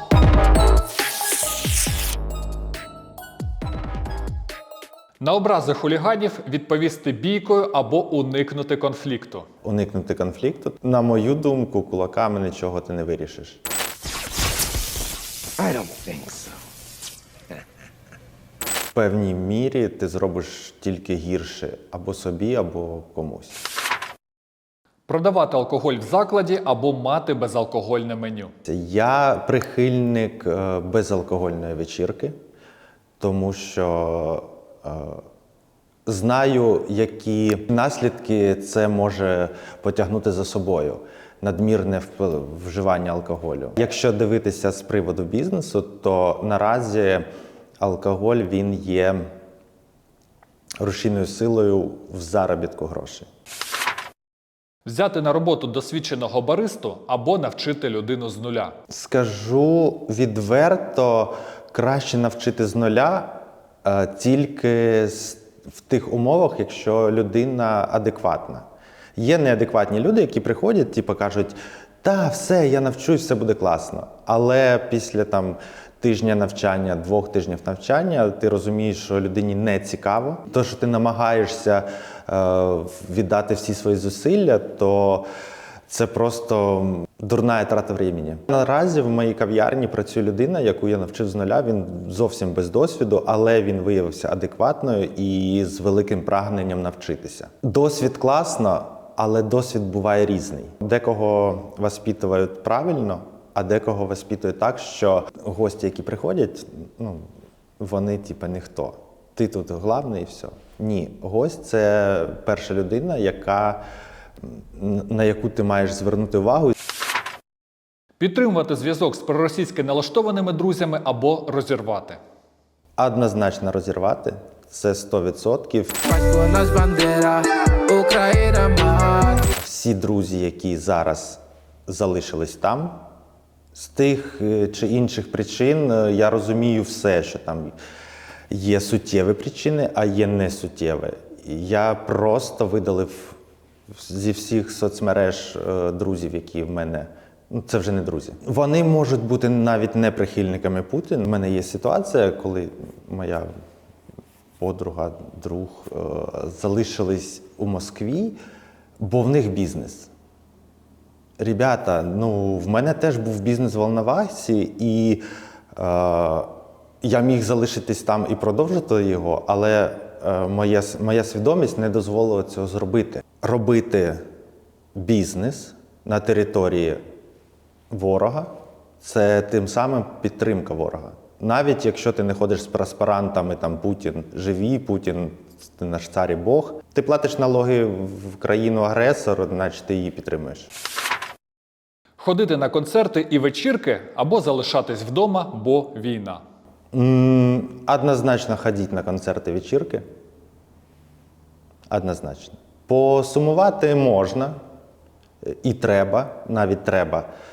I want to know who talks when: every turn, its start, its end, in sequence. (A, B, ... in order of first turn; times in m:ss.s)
0:05.2-0:09.5 A
0:09.6-0:13.6 B
0:15.6-0:16.6 C
0:18.9-0:23.6 B
0:25.1-0:28.5 A
0:28.7-0:32.3 B
0:33.2-0:35.2 B
0:36.1-0:47.3 B
0:47.8-0:49.2 B
0:50.8-0:53.3 B
0:54.9-0:58.8 A
0:58.9-1:08.6 B
1:09.2-1:25.3 B
1:25.9-1:47.2 B
1:47.8-1:53.8 B
1:54.7-1:56.7 B
1:58.2-2:02.2 A
2:03.0-2:06.1 B
2:06.1-2:09.5 C
2:09.5-2:13.0 B
2:13.7-2:17.8 B
2:18.5-2:23.4 B
2:23.9-2:33.5 B
2:34.6-2:38.4 B
2:39.0-2:40.1 B
2:41.4-2:45.2 B
2:45.8-2:46.5 B
2:47.0-2:54.2 B
2:55.0-2:57.0 B
2:57.9-3:10.7 B
3:12.2-3:16.4 A
3:16.9-3:20.0 B
3:21.9-3:24.6 B
3:25.5-3:27.3 B